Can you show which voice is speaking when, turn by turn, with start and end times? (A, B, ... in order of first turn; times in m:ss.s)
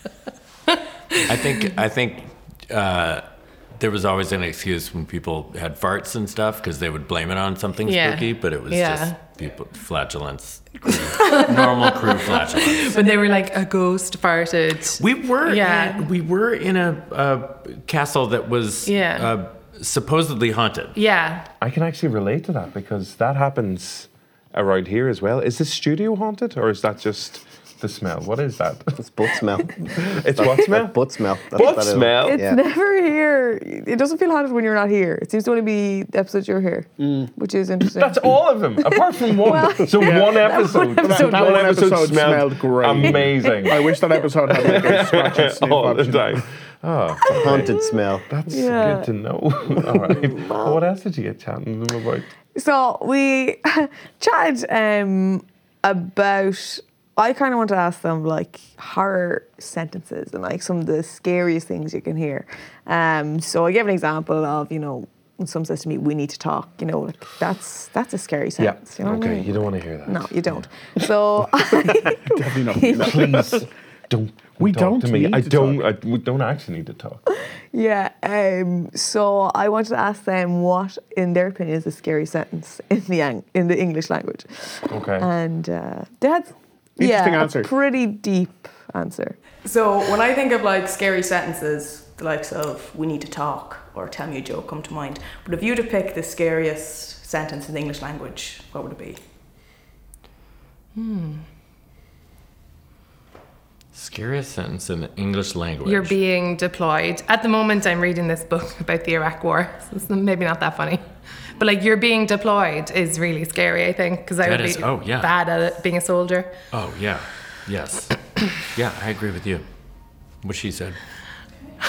0:01.1-0:01.7 A
0:01.3-0:13.1 B
0:07.8-0:09.2 A
0:10.9-0:16.1 A
0:15.0-0:21.0 B
0:18.8-0:19.3 A
0:20.9-0:21.5 A
0:21.6-0:29.0 C
0:29.0-0:32.6 D
0:30.0-0:30.9 C
0:31.5-0:32.4 C
0:32.2-0:38.3 E
0:37.0-0:37.3 F
0:38.0-0:43.8 C
0:38.9-0:41.6 E
0:40.0-0:46.4 F
0:43.0-0:43.7 E
0:44.5-0:47.7 C
0:47.3-0:48.2 D
0:48.3-0:52.3 C
0:48.5-0:49.1 E
0:49.9-0:50.8 E
0:52.5-1:13.3 E
1:08.6-1:10.6 C
1:12.3-1:13.5 F
1:12.9-1:17.2 C
1:14.6-1:15.8 F
1:17.7-1:29.4 E
1:24.9-1:25.3 C
1:27.0-1:27.7 F
1:29.6-1:39.2 G
1:40.9-1:41.5 A
1:43.9-1:46.2 B
1:45.8-1:51.0 A
1:51.6-1:56.5 A
1:54.4-1:55.3 B
1:56.7-1:58.1 B
1:58.7-1:59.6 B
2:00.4-2:01.0 B